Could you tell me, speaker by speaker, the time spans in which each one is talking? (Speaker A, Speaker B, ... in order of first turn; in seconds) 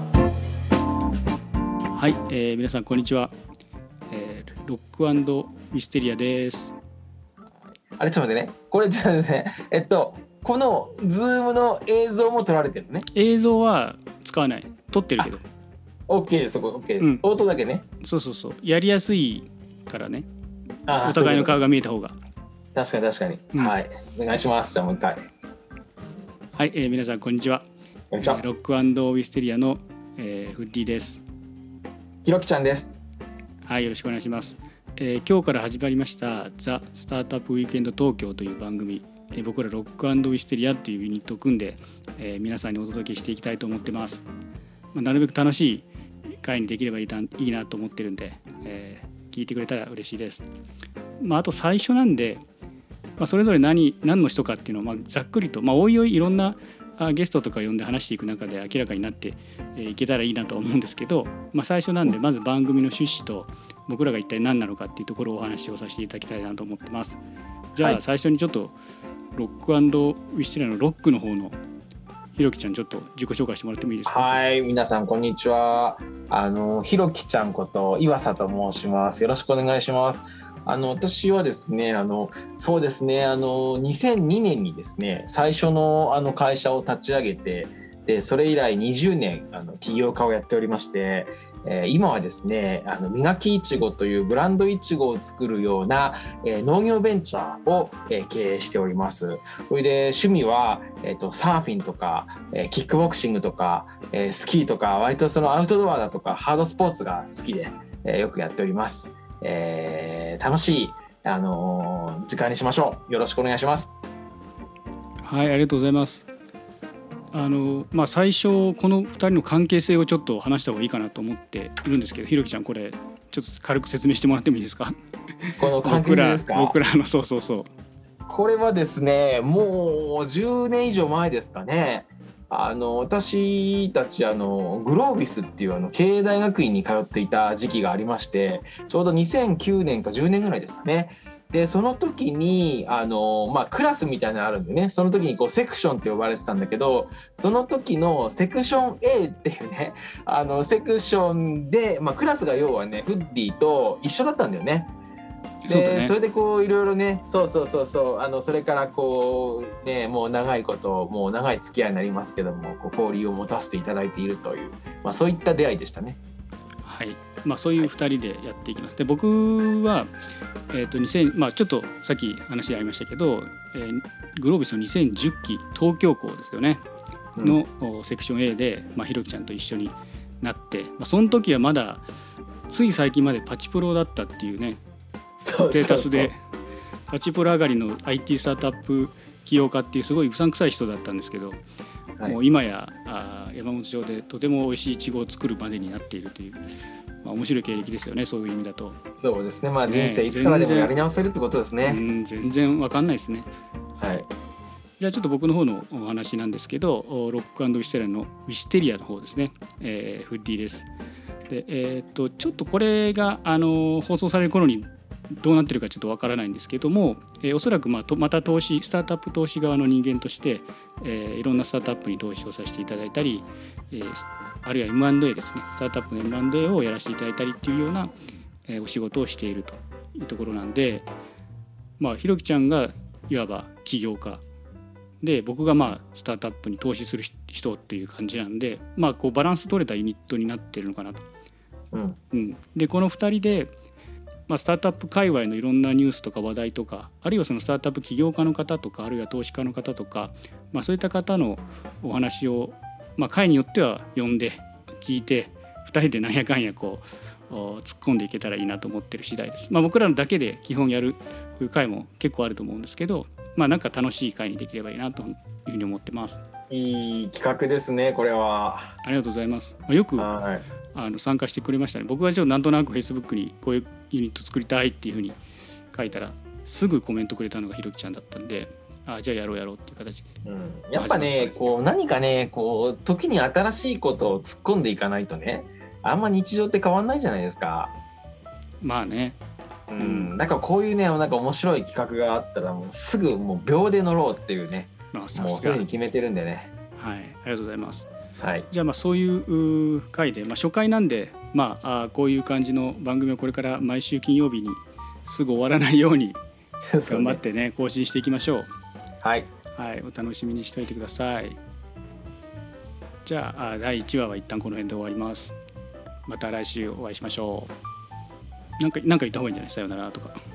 Speaker A: 1.9-3.3, 4.1-6.8, 13.1-15.4, 18.0-20.3, 21.0-22.1, 26.6-27.6, 28.2-31.2, 33.6-44.2, 44.9-45.9, 46.4-50.5, 51.2-52.4, 53.2-67.2, 67.7-68.7, 69.3-71.6, 72.3-74.3, 115.2-116.2, 117.3-124.9, 125.8-127.7, 155.6-156.1, 166.8-170.1, 170.7-176.8, 177.4-182.0, 182.7-184.8, 185.7-186.4, 187.1-191.6, 192.2-196.6, 197.2-199.0, 199.9-200.9, 201.8-203.5, 205.0-210.9, 211.5-228.1, 228.7-231.1, 232.0-234.4, 235.2-241.2, 242.3-243.7, 244.5-266.4, 269.0-270.3, 270.9-275.4, 275.9-280.3, 280.9-281.7, 288.8-289.4, 290.0-290.3, 295.1-295.8, 296.9-298.1, 298.7-306.4, 307.1-308.7, 309.7-311.6, 313.2-315.5, 316.3-317.7, 318.8-320.4
Speaker B: 7.5-13.0, 16.1-17.8, 20.9-21.6, 22.7-25.2, 28.1-28.4, 32.2-32.9, 74.0-113.9, 125.6-126.8, 128.3-154.9, 155.7-166.2, 185.4-186.3, 199.2-202.0, 204.0-204.3, 241.9-242.2, 266.7-268.9, 270.2-270.6, 280.4-287.9, 289.9-296.7, 298.4-298.7, 306.9-307.4, 309.2-309.5